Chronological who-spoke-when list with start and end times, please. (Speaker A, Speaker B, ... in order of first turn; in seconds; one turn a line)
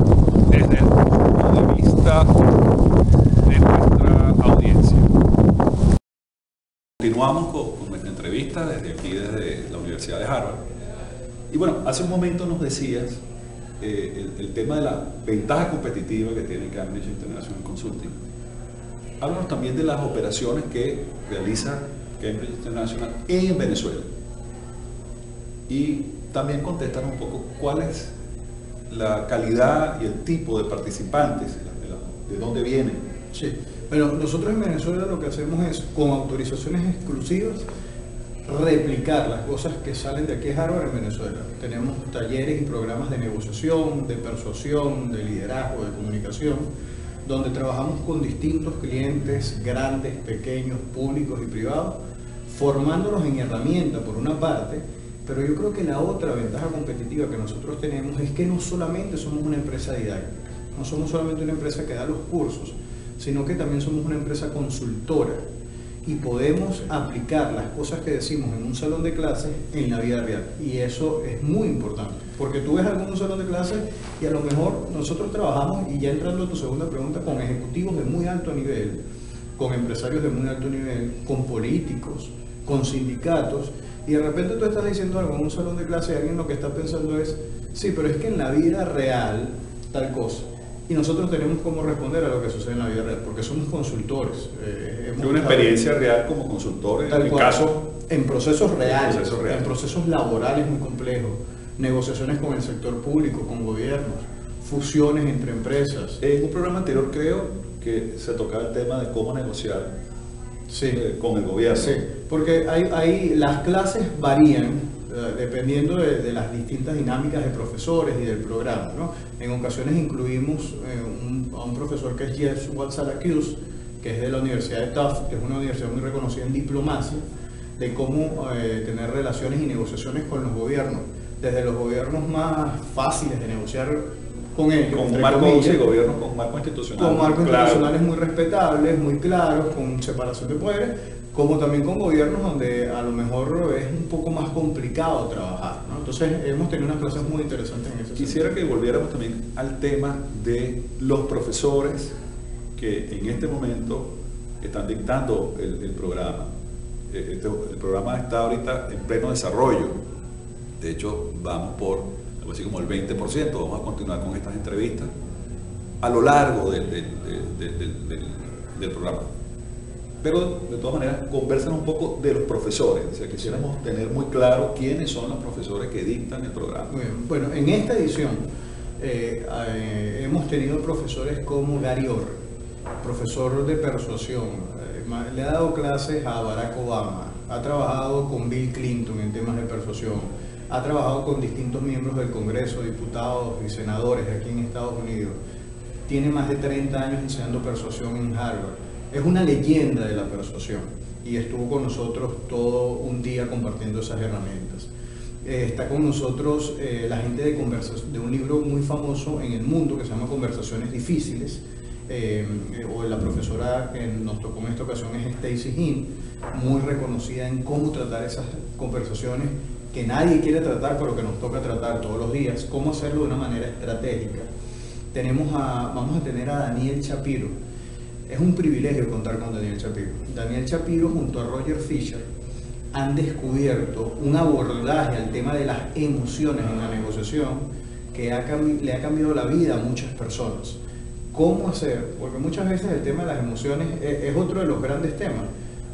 Speaker A: 0.5-2.3
Speaker A: 3.5-5.1
Speaker A: 7.0-10.6
Speaker A: 11.5-13.2
Speaker A: 13.8-18.2
Speaker A: 19.2-24.1
Speaker A: 25.7-28.1
Speaker A: 28.9-33.0
Speaker B: 33.3-37.6
Speaker B: 38.4-46.7
Speaker B: 47.2-65.4
Speaker B: 66.0-79.0
Speaker B: 79.6-95.8
Speaker A: 95.2-97.8
Speaker B: 97.1-106.2
Speaker A: 98.8-99.6
Speaker A: 106.2-109.9
Speaker B: 110.7-111.0
Speaker A: 110.9-112.0
Speaker B: 111.7-127.2
Speaker B: 127.8-134.0
Speaker B: 134.5-135.8
Speaker A: 134.9-137.9
Speaker B: 137.0-148.5
Speaker A: 148.2-152.1
Speaker A: 152.8-154.1
Speaker A: 154.6-156.5
Speaker A: 157.1-159.9
Speaker A: 160.8-165.1
Speaker A: 166.0-169.3
Speaker A: 170.2-176.9
Speaker B: 176.9-178.4
Speaker B: 179.0-182.4
Speaker B: 183.0-195.4
Speaker B: 196.1-204.9
Speaker B: 205.4-224.5
Speaker B: 225.1-227.5
Speaker B: 228.3-232.2
Speaker B: 232.9-240.8
Speaker B: 241.3-245.5